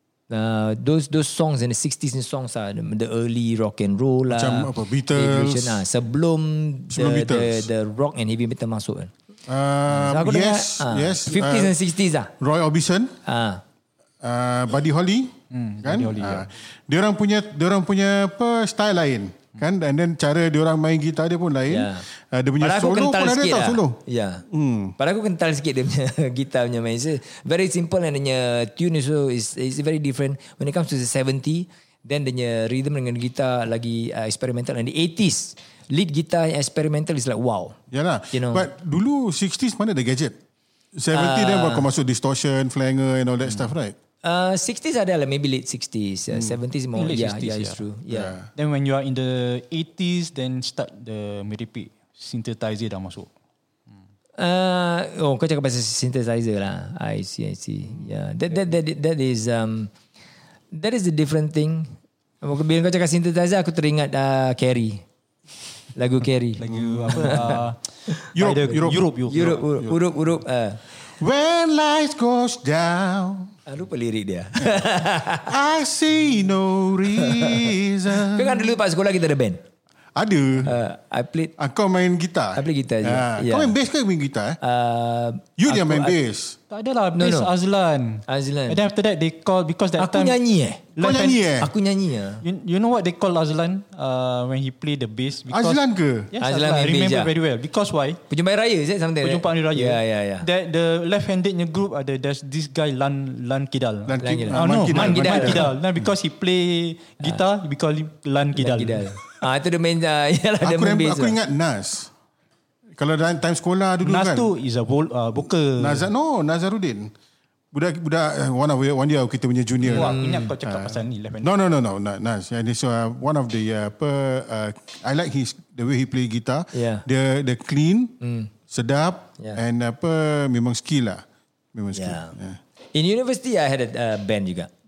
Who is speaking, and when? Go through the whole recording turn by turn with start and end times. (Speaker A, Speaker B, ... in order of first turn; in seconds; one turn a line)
Speaker A: 0.3-9.1
Speaker B: 4.3-5.8
Speaker B: 6.9-7.7
Speaker B: 9.5-11.8
Speaker A: 9.9-12.3
Speaker B: 12.4-13.1
Speaker A: 13.2-13.6
Speaker B: 14.2-24.9
Speaker C: 15.5-16.5
Speaker A: 21.7-22.0
Speaker A: 22.6-24.4
Speaker A: 25.0-37.8
Speaker B: 37.9-40.4
Speaker A: 38.3-38.6
Speaker B: 40.9-44.0
Speaker A: 41.1-41.9
Speaker A: 44.2-48.3
Speaker C: 47.0-47.8
Speaker B: 48.1-48.5
Speaker C: 48.5-53.3
Speaker A: 54.4-59.9
Speaker A: 60.7-65.0
Speaker A: 65.9-67.6
Speaker C: 66.6-67.8
Speaker B: 66.7-67.6
Speaker C: 68.3-69.6
Speaker B: 68.3-70.0
Speaker A: 69.3-70.8
Speaker B: 71.2-73.5
Speaker A: 73.7-75.5
Speaker B: 75.5-78.7
Speaker A: 77.2-77.7
Speaker A: 78.2-79.6
Speaker B: 80.1-80.7
Speaker A: 80.6-81.5
Speaker B: 81.6-84.6
Speaker A: 82.5-83.7
Speaker A: 84.6-86.2
Speaker B: 85.6-86.6
Speaker C: 86.7-90.4
Speaker A: 87.1-87.5
Speaker A: 88.3-88.8
Speaker A: 90.0-90.9
Speaker C: 91.0-91.4
Speaker B: 91.0-91.7
Speaker A: 91.6-92.4
Speaker C: 92.4-98.2
Speaker B: 95.5-96.3
Speaker A: 96.4-97.3
Speaker A: 98.3-100.5
Speaker C: 99.2-109.1
Speaker B: 104.1-105.7
Speaker A: 104.2-105.7
Speaker A: 108.6-111.4
Speaker B: 110.6-112.1
Speaker B: 113.0-114.5
Speaker C: 114.0-116.1
Speaker B: 115.8-117.1
Speaker B: 117.7-128.1
Speaker C: 119.8-121.5
Speaker A: 119.9-120.5
Speaker A: 126.7-127.0
Speaker A: 128.2-128.5
Speaker B: 128.7-132.6
Speaker A: 131.9-132.3
Speaker A: 132.9-134.7